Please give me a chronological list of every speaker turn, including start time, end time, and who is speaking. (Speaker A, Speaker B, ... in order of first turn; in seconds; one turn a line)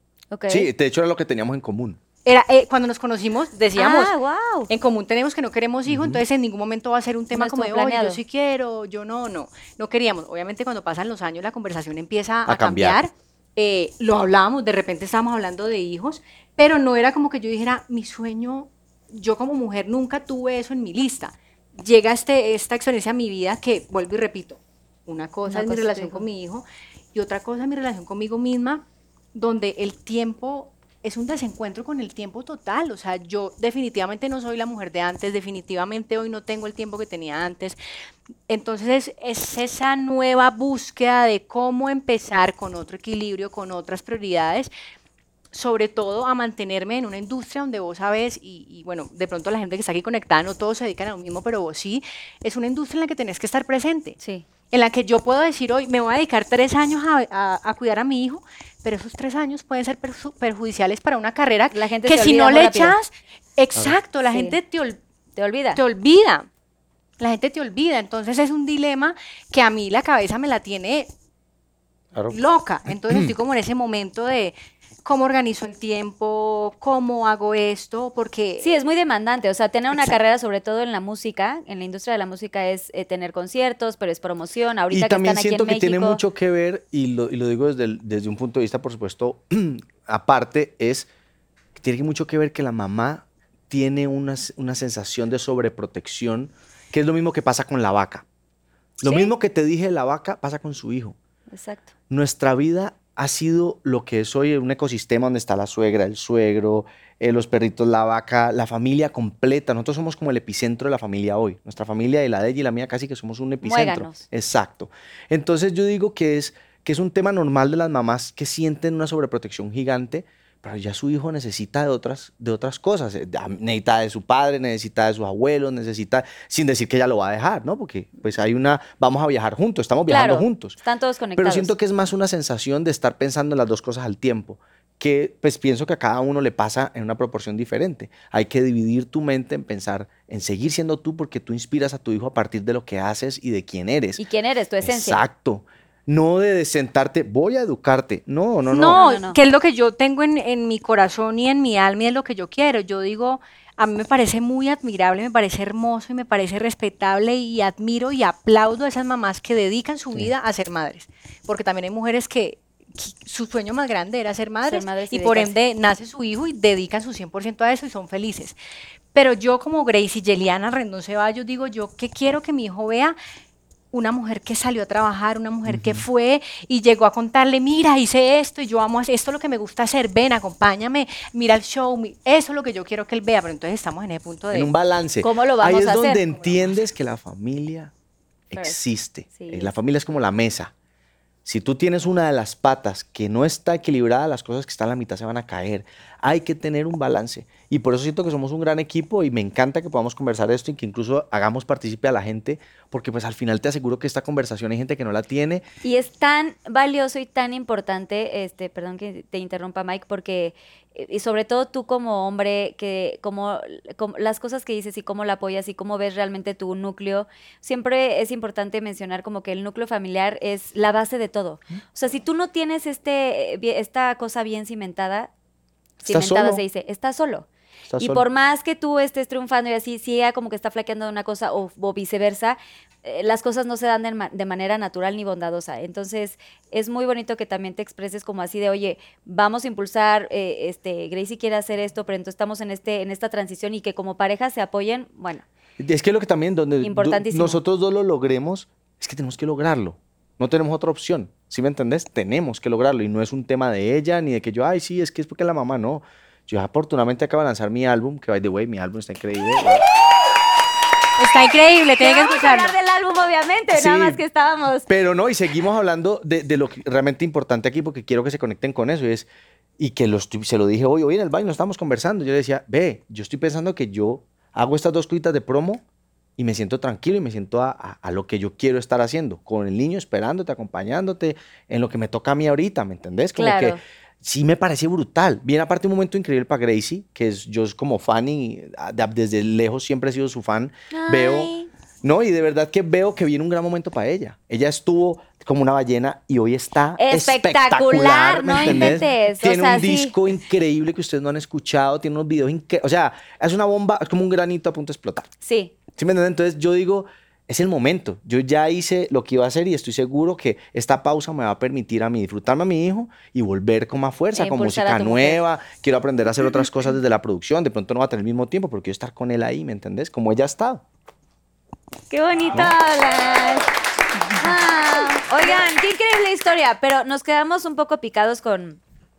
Speaker A: 0.3-0.7
Speaker B: 0.5-2.0
Speaker C: 2.2-4.1
Speaker A: 3.8-4.7
Speaker C: 4.7-37.8
Speaker B: 5.9-6.2
Speaker A: 7.3-8.2
Speaker B: 12.5-13.0
Speaker A: 25.5-26.2
Speaker C: 38.5-44.7
Speaker C: 45.5-54.2
Speaker A: 54.2-54.5
Speaker C: 54.7-65.0
Speaker A: 61.7-63.0
Speaker A: 64.3-64.6
Speaker A: 65.4-65.8
Speaker C: 65.8-66.5
Speaker C: 67.2-71.1
Speaker C: 72.3-74.5
Speaker C: 75.0-78.7
Speaker A: 78.6-86.2
Speaker B: 84.9-91.1
Speaker B: 91.8-98.2
Speaker B: 99.0-101.2
Speaker A: 99.0-99.3
Speaker A: 101.5-101.9
Speaker B: 102.1-130.8
Speaker A: 113.6-114.2
Speaker A: 130.1-131.7
Speaker B: 131.4-144.2
Speaker A: 144.2-145.2
Speaker B: 144.8-149.0
Speaker C: 148.7-168.6
Speaker A: 148.9-149.4
Speaker A: 164.7-165.5
Speaker C: 169.1-173.2
Speaker C: 173.9-184.7
Speaker B: 175.7-176.0
Speaker B: 184.5-187.9
Speaker A: 185.2-186.2
Speaker C: 186.3-186.8
Speaker B: 188.5-190.7
Speaker A: 189.3-189.7
Speaker B: 191.4-205.6
Speaker A: 205.8-225.3
Speaker A: 226.0-227.5
Speaker B: 226.1-226.6
Speaker B: 227.9-228.2
Speaker A: 228.0-245.4
Speaker B: 245.8-259.8
Speaker A: 246.8-247.6
Speaker C: 261.2-262.7
Speaker A: 262.0-264.9
Speaker B: 263.7-264.2
Speaker B: 264.9-275.8
Speaker B: 276.4-291.5
Speaker A: 283.4-283.8
Speaker A: 290.9-291.7
Speaker B: 292.0-305.3
Speaker A: 297.0-300.1
Speaker A: 305.4-305.7
Speaker B: 306.0-320.8
Speaker A: 314.4-315.4
Speaker A: 322.1-323.7
Speaker A: 324.4-328.8